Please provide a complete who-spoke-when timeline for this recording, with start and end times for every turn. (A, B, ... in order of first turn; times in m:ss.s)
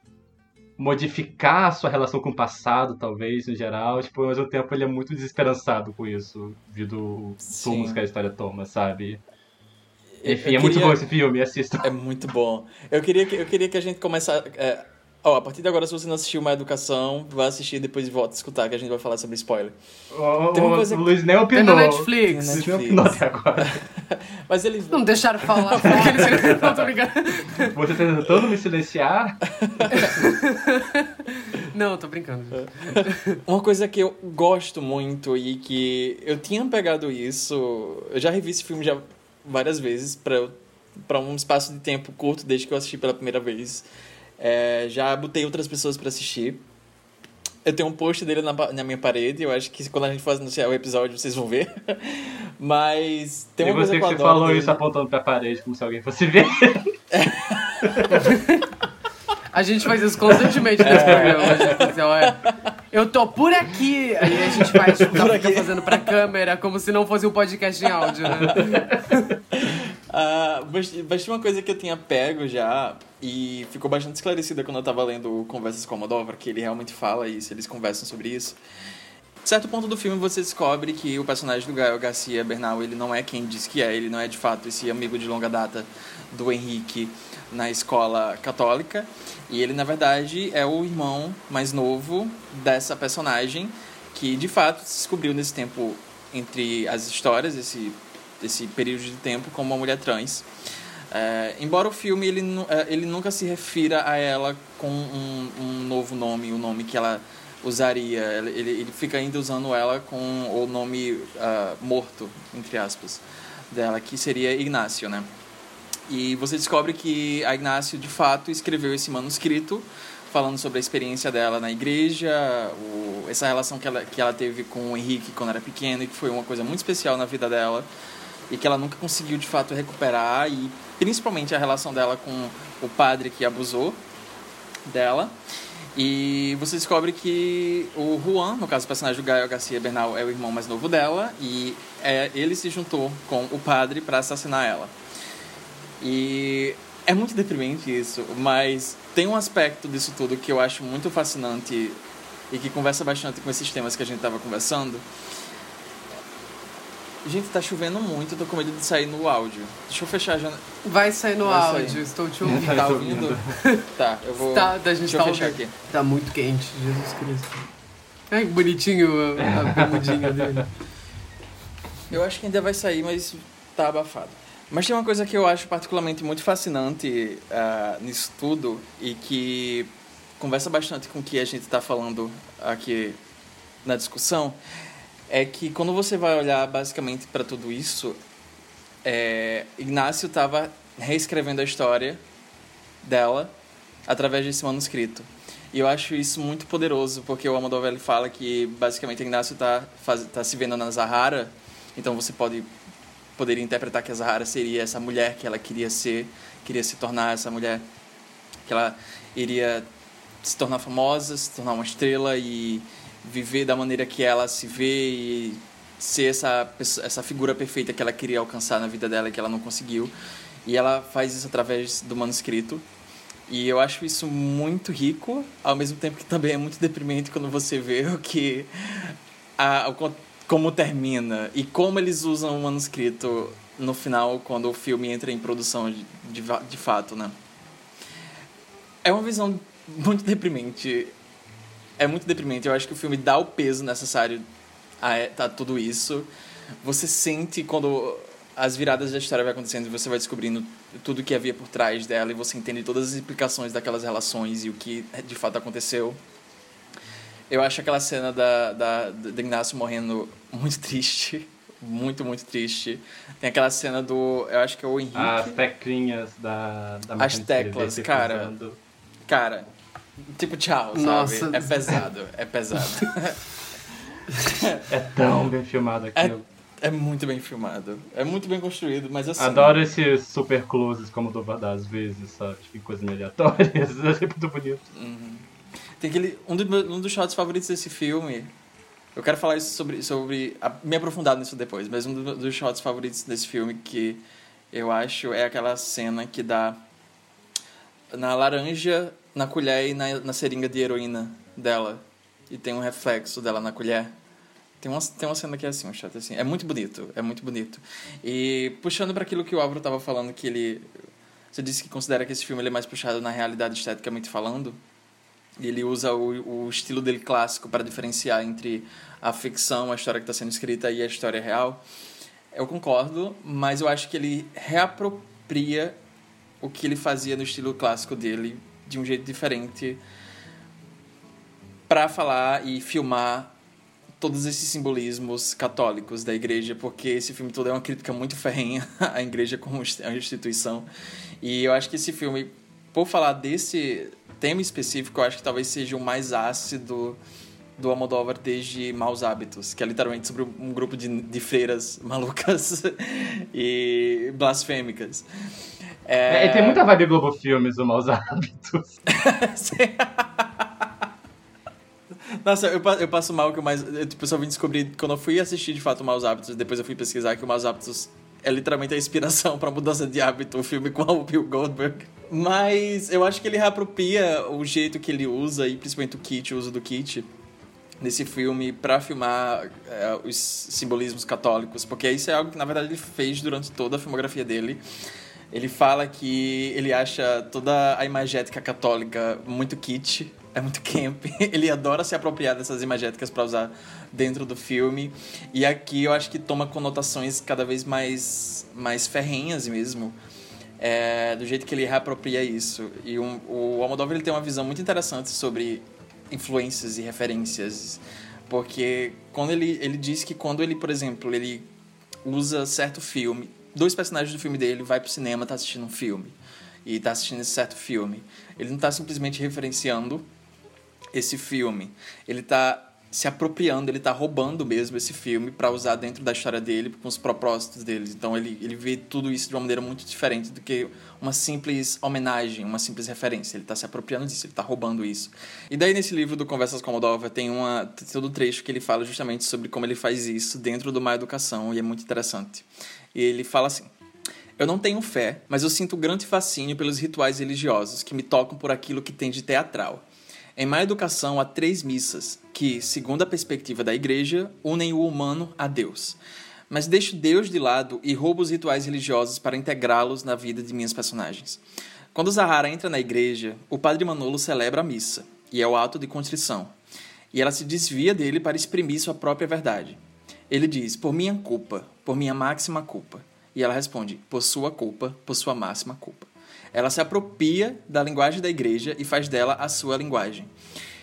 0:00.8-0:09.2 A
0:07.4-0:08.0 B
0:10.2-0:11.0 B
0:10.2-0:11.9 A
0:11.8-0:19.8 B
0:20.1-0:23.8 A
0:20.5-0:21.2 B
0:21.5-0:22.6 C
0:22.2-0:26.7 B
0:24.9-0:27.7 C
0:25.8-0:26.8 A
0:27.7-0:29.4 A
0:29.6-0:30.1 B
0:29.9-0:33.4 C
0:32.5-0:43.9 B
0:44.4-0:46.6 B
0:47.6-0:54.8 B
0:53.6-0:56.9 A
0:57.1-0:58.1 B
0:58.2-0:58.5 C
0:59.5-1:02.4 C
1:00.8-1:02.5 B
1:00.8-1:01.8 A
1:02.9-1:09.3 C
1:05.0-1:06.1 B
1:09.5-1:18.6 B
1:19.4-1:40.5 B
1:41.1-1:55.3 B
1:56.1-2:07.9 B
2:08.5-2:14.0 B
2:14.8-2:15.4 B
2:15.9-2:24.9 B
2:26.0-2:35.1 B
2:37.2-2:40.6 B
2:40.8-2:42.8 C
2:41.4-2:45.7 B
2:42.5-2:43.5 A
2:44.4-2:47.6 C
2:48.3-2:50.6 C
2:49.5-2:50.5 A
2:52.1-3:03.2 B
3:03.8-3:04.6 B
3:05.3-3:08.2 B
3:09.0-3:12.2 B
3:13.0-3:13.5 B
3:14.1-3:22.7 B
3:23.4-3:27.8 B
3:28.6-3:29.9 B
3:30.4-3:40.1 B
3:40.6-3:42.8 B
3:43.5-3:57.4 B
3:59.0-4:01.1 B
4:02.0-4:04.5 B
4:05.0-4:06.3 B
4:06.8-4:16.2 B
4:17.5-4:25.6 B
4:25.2-4:28.8 A
4:27.2-4:28.5 B
4:29.3-4:29.7 B
4:30.2-4:33.4 B
4:30.9-4:32.0 C
4:34.4-4:34.8 B
4:34.9-4:36.4 A
4:36.2-4:39.9 B
4:39.4-4:44.8 A
4:44.9-4:45.4 B
4:46.0-4:48.5 B
4:49.2-4:56.8 B
4:58.1-5:04.2 B
5:04.8-5:10.9 B
5:11.5-5:14.8 B
5:15.6-5:21.8 B
5:22.5-5:26.0 B
5:26.6-5:30.0 B
5:31.9-5:33.5 B
5:34.2-5:40.9 B
5:41.4-5:47.2 B
5:47.8-5:55.3 B
5:56.1-5:56.9 B
5:56.3-5:59.0 A
5:59.1-6:00.9 B
6:02.3-6:17.3 B
6:18.0-6:24.8 B
6:25.5-6:40.2 B
6:40.8-6:51.7 B
6:52.2-7:00.3 B
7:01.1-7:23.9 B
7:24.6-7:46.8 B
7:47.3-8:00.5 B